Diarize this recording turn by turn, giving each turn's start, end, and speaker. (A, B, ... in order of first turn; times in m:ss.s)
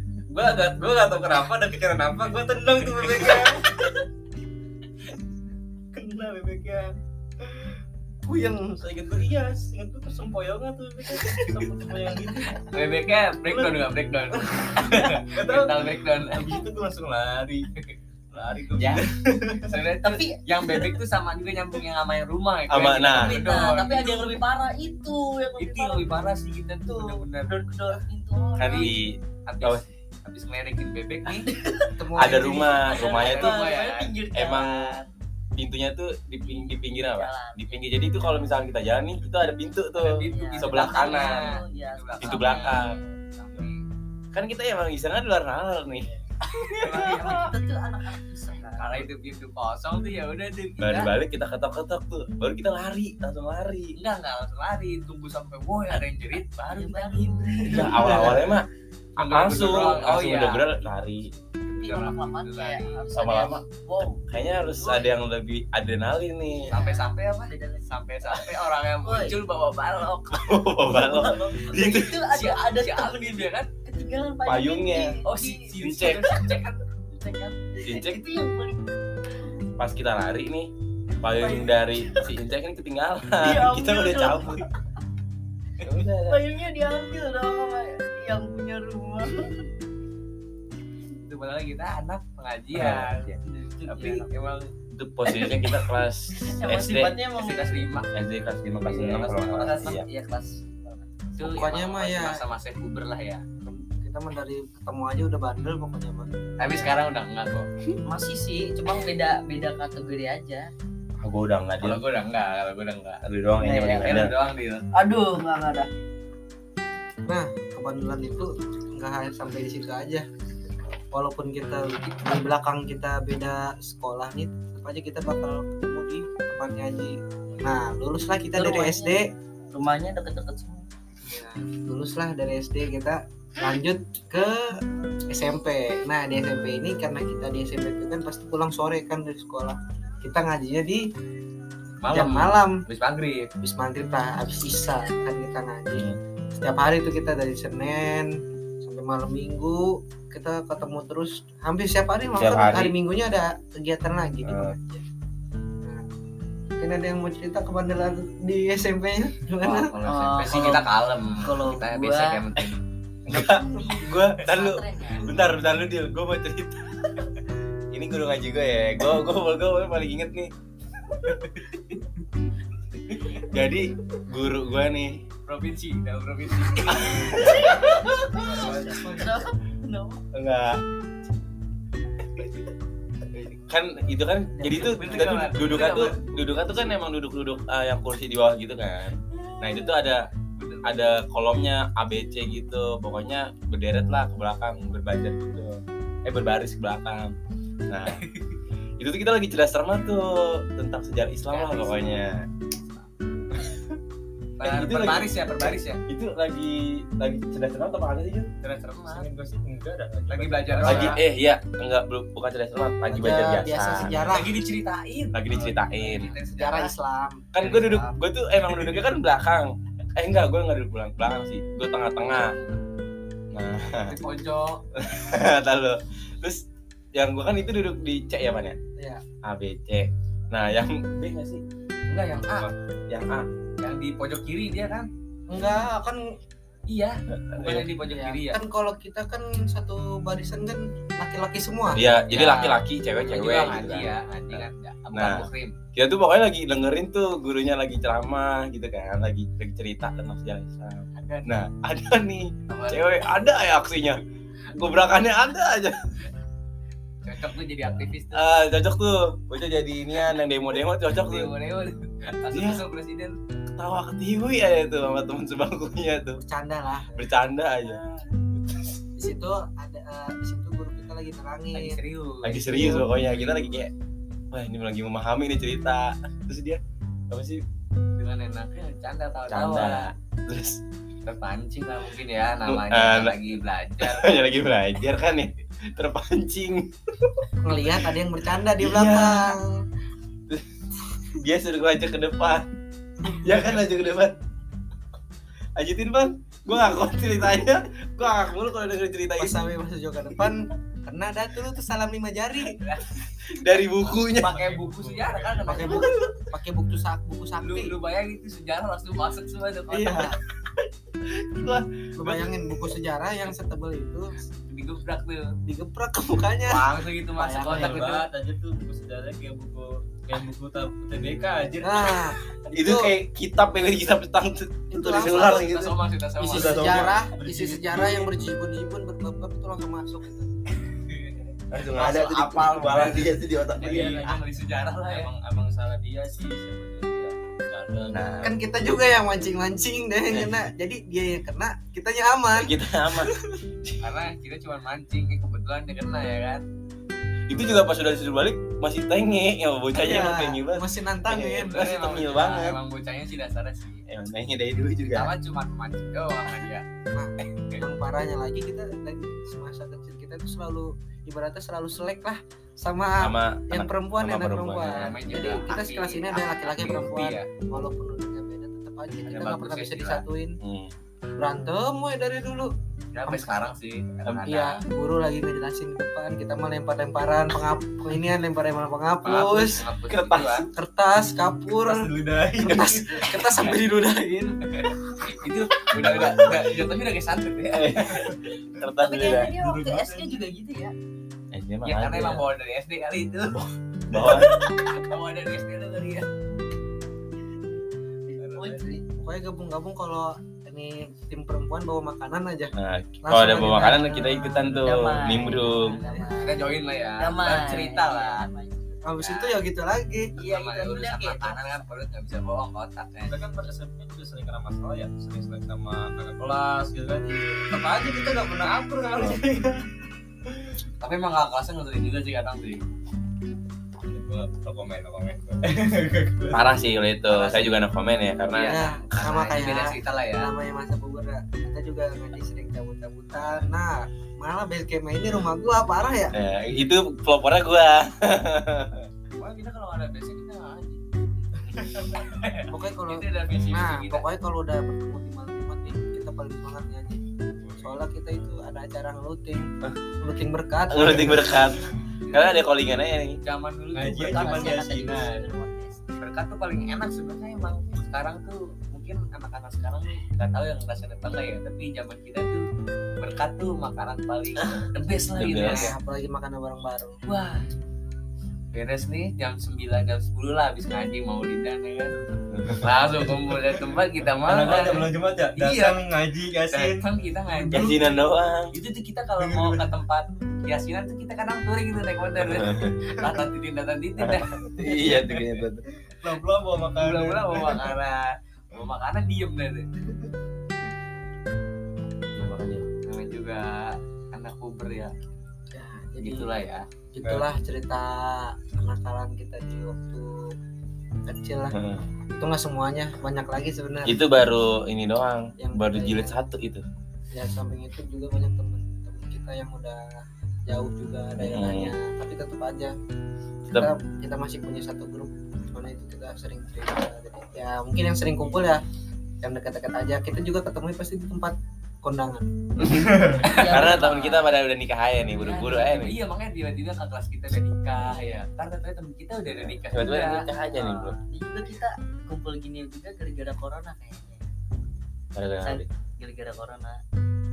0:00.3-0:03.6 A
0:05.9-0:06.8 A
0:08.3-0:12.6 A
0:12.7-0:16.5 B
0:14.8-0:17.6 A
0:18.3-0:19.7 A
0:18.7-0:19.0 B
0:19.6-0:24.4 B
0:20.0-0:20.4 C
0:22.7-0:23.4 D
0:23.1-0:26.2 C
0:25.6-0:28.0 B
0:26.8-0:29.0 C
0:28.6-0:29.8 D
0:28.6-0:28.9 B
0:29.4-0:31.5 B
0:31.4-0:31.9 C
0:32.0-0:32.8 E
0:32.2-0:33.6 D
0:32.9-0:35.1 C
0:32.9-0:34.1 B
0:34.3-0:35.0 D
0:35.5-0:41.6 D
0:36.4-0:38.0 C
0:39.9-0:43.9 B
0:40.3-0:43.0 C
0:42.2-0:43.0 D
0:44.3-0:47.4 D
0:46.8-0:49.1 C
0:46.8-0:47.5 B
0:48.6-0:51.1 B
0:50.8-0:54.0 D
0:53.9-0:57.6 B
0:56.7-0:58.5 C
0:57.6-0:58.4 E
0:57.7-0:58.6 D
0:59.2-1:00.8 B
0:59.2-1:01.3 D
1:00.8-1:05.1 C
1:01.6-1:03.0 B
1:03.1-1:03.6 D
1:04.3-1:06.8 D
1:06.5-1:08.4 C
1:06.7-1:10.6 B
1:09.0-1:09.4 C
1:10.3-1:12.2 D
1:10.8-1:15.7 C
1:11.7-1:13.7 B
1:14.4-1:15.2 D
1:15.2-1:17.6 B
1:15.8-1:16.4 D
1:17.8-1:18.8 C
1:17.8-1:18.2 D
1:19.8-1:20.7 D
1:21.2-1:24.6 D
1:21.3-1:22.3 C
1:23.4-1:24.6 C
1:25.8-1:26.4 D
1:26.1-1:29.6 C
1:31.2-1:33.3 B
1:32.7-1:33.2 D
1:33.4-1:34.3 C
1:33.8-1:34.7 B
1:34.9-1:37.3 D
1:35.3-1:35.7 C
1:36.4-1:37.8 C
1:37.3-1:38.1 B
1:38.1-1:40.0 D
1:38.9-1:41.3 C
1:38.9-1:40.0 B
1:41.4-1:43.4 B
1:41.4-1:42.4 E
1:43.6-1:46.3 E
1:46.6-1:47.7 B
1:48.0-1:50.7 C
1:51.2-1:52.0 D
1:51.8-1:53.2 B
1:53.2-1:54.3 D
1:53.6-1:54.2 C
1:53.9-1:54.8 B
1:54.9-1:55.9 C
1:57.3-2:00.2 E
2:01.1-2:09.2 E
2:08.6-2:09.2 C
2:09.7-2:10.8 C
2:11.2-2:14.6 E
2:15.3-2:21.0 E
2:22.0-2:23.5 B
2:22.1-2:22.7 E
2:23.6-2:28.3 E
2:28.8-2:35.0 E
2:32.4-2:33.0 D
2:34.4-2:34.8 D
2:36.8-2:40.0 E
2:39.6-2:42.7 B
2:40.0-2:40.8 C
2:41.4-2:42.4 C
2:43.3-2:47.3 D
2:43.3-2:45.3 C
2:47.9-2:50.5 D
2:51.2-2:52.0 B
2:53.3-2:55.2 D
2:55.4-2:57.6 B
2:57.0-2:58.7 D
2:57.3-3:00.2 C
2:58.4-2:59.3 E
3:00.3-3:00.8 D
3:03.5-3:10.2 D
3:04.6-3:05.3 E
3:04.7-3:06.8 B
3:09.5-3:09.9 C
3:10.6-3:11.2 B
3:10.8-3:17.3 D
3:17.9-3:18.2 D
3:18.2-3:18.6 B
3:19.0-3:22.4 D
3:21.5-3:23.1 B
3:23.6-3:23.8 D
3:24.6-3:26.0 B
3:24.6-3:28.5 D
3:28.6-3:29.3 B
3:29.1-3:31.2 A
3:30.3-3:31.2 B
3:30.8-3:34.4 D
3:33.1-3:34.5 E
3:34.3-3:36.9 B
3:35.3-3:36.3 D
3:36.5-3:38.1 E
3:37.5-3:42.6 D
3:43.5-3:44.2 D
3:44.0-3:44.8 B
3:45.0-3:46.6 D
3:47.1-3:48.8 D
3:49.4-3:51.6 D
3:52.1-3:52.7 B
3:53.1-3:53.5 D
3:53.8-3:55.1 B
3:55.5-3:56.2 E
3:56.9-3:58.6 B
3:57.3-3:57.9 D
3:58.1-4:02.0 E
4:01.9-4:14.2 D
4:02.3-4:05.7 B
4:11.1-4:11.7 B
4:12.7-4:13.6 B
4:14.7-4:16.2 D
4:17.2-4:18.6 B
4:18.3-4:21.5 D
4:21.2-4:23.4 B
4:22.5-4:22.8 D
4:23.7-4:26.4 D
4:26.4-4:27.3 E
4:27.1-4:28.0 D
4:29.2-4:32.0 E
4:31.7-4:32.6 B
4:32.4-4:33.9 D
4:32.5-4:33.1 E
4:33.3-4:33.8 B
4:34.5-4:37.6 D
4:38.2-4:40.1 B
4:39.5-4:40.8 D
4:41.2-4:44.5 B
4:42.7-4:43.4 D
4:44.0-4:47.2 D
4:47.6-4:49.7 E
4:48.8-4:49.6 D
4:51.4-4:52.7 D
4:53.4-4:54.4 D
4:55.8-4:59.5 D
4:59.4-5:02.8 E
5:02.8-5:03.2 B
5:03.4-5:04.6 D
5:04.3-5:06.0 B
5:04.4-5:06.0 A
5:05.7-5:07.9 E
5:07.6-5:10.3 B
5:09.9-5:10.4 E
5:11.3-5:12.5 D
5:12.2-5:14.4 E
5:14.6-5:15.5 B
5:15.6-5:18.1 E
5:16.6-5:18.3 B
5:17.7-5:22.4 A
5:21.8-5:23.1 E
5:22.7-5:25.9 D
5:24.9-5:25.7 E
5:25.2-5:26.9 B
5:26.4-5:30.6 E
5:26.5-5:28.3 A
5:26.6-5:27.1 D
5:30.9-5:31.4 B
5:31.7-5:34.2 D
5:32.0-5:35.3 B
5:32.6-5:38.5 A
5:38.1-5:38.5 D
5:38.4-5:43.3 E
5:40.3-5:40.6 D
5:42.6-5:43.3 D
5:44.0-5:46.6 B
5:47.5-5:52.8 D
5:50.0-5:51.8 E
5:51.6-5:54.0 B
5:54.1-5:55.3 D
5:55.1-5:56.8 B
5:57.1-6:10.6 E
6:03.2-6:05.2 D
6:05.0-6:07.4 B
6:09.3-6:10.2 B
6:10.6-6:10.9 D
6:11.4-6:12.7 E
6:13.1-6:14.8 B
6:13.2-6:13.6 E
6:14.2-6:19.8 E
6:19.2-6:20.7 B
6:20.1-6:20.6 D
6:20.8-6:24.5 E
6:21.8-6:23.7 A
6:24.8-6:28.1 B
6:26.2-6:26.5 A
6:27.7-6:29.5 D
6:29.0-6:30.9 C
6:29.6-6:30.3 A
6:31.5-6:32.4 D
6:31.8-6:33.6 B
6:34.1-6:34.5 D
6:34.5-6:36.3 B
6:38.4-6:38.9 B
6:38.5-6:39.0 C
6:39.1-6:44.7 E
6:42.8-6:46.0 D
6:44.8-6:49.0 C
6:45.4-6:46.3 E
6:46.4-6:48.5 B
6:49.0-6:50.3 E
6:49.2-6:49.6 B
6:50.3-6:53.4 B
6:50.3-6:51.8 C
6:53.3-6:59.8 A
7:01.0-7:02.8 B
7:04.1-7:06.6 A
7:06.5-7:08.8 D
7:07.3-7:07.8 E
7:08.5-7:10.5 B
7:08.5-7:16.3 E
7:16.3-7:19.1 D
7:19.4-7:21.0 B
7:21.6-7:24.2 B
7:21.7-7:22.1 A
7:22.7-7:27.2 E
7:23.5-7:23.8 D
7:27.8-7:29.7 E
7:30.2-7:31.4 E
7:30.9-7:33.4 D
7:32.3-7:32.6 B
7:33.4-7:35.4 B
7:33.9-7:35.3 A
7:34.2-7:36.0 C
7:36.2-7:42.6 B
7:43.2-7:46.0 B
7:45.4-7:45.9 D
7:45.6-7:47.2 E
7:47.2-7:47.7 B
7:48.7-7:52.2 B
7:52.5-7:52.8 D
7:52.8-7:56.0 B
7:54.4-7:58.0 A
7:56.7-7:58.2 B
7:57.7-7:58.7 D
7:58.7-8:04.5 B
7:59.4-7:59.9 A
8:02.4-8:02.9 D
8:04.2-8:05.8 D
8:04.8-8:05.6 A
8:06.2-8:07.8 A
8:07.0-8:09.9 B
8:12.4-8:12.8 D
8:13.0-8:15.1 B
8:15.7-8:16.5 E
8:16.2-8:16.8 B
8:17.1-8:20.3 E
8:21.3-8:21.7 E
8:21.7-8:22.0 D
8:22.3-8:24.1 E
8:24.0-8:26.8 D
8:25.6-8:26.3 E
8:27.3-8:30.0 E
8:30.7-8:32.9 E
8:31.4-8:31.9 D
8:33.7-8:38.8 E
8:39.4-8:42.4 E
8:42.8-8:46.2 D
8:43.1-8:43.5 A
8:43.4-8:44.5 C
8:43.5-8:44.0 B
8:45.3-8:51.0 B
8:48.0-8:48.3 D
8:49.8-8:51.2 D
8:51.3-8:54.4 C
8:55.3-8:55.8 D
8:55.6-8:57.0 C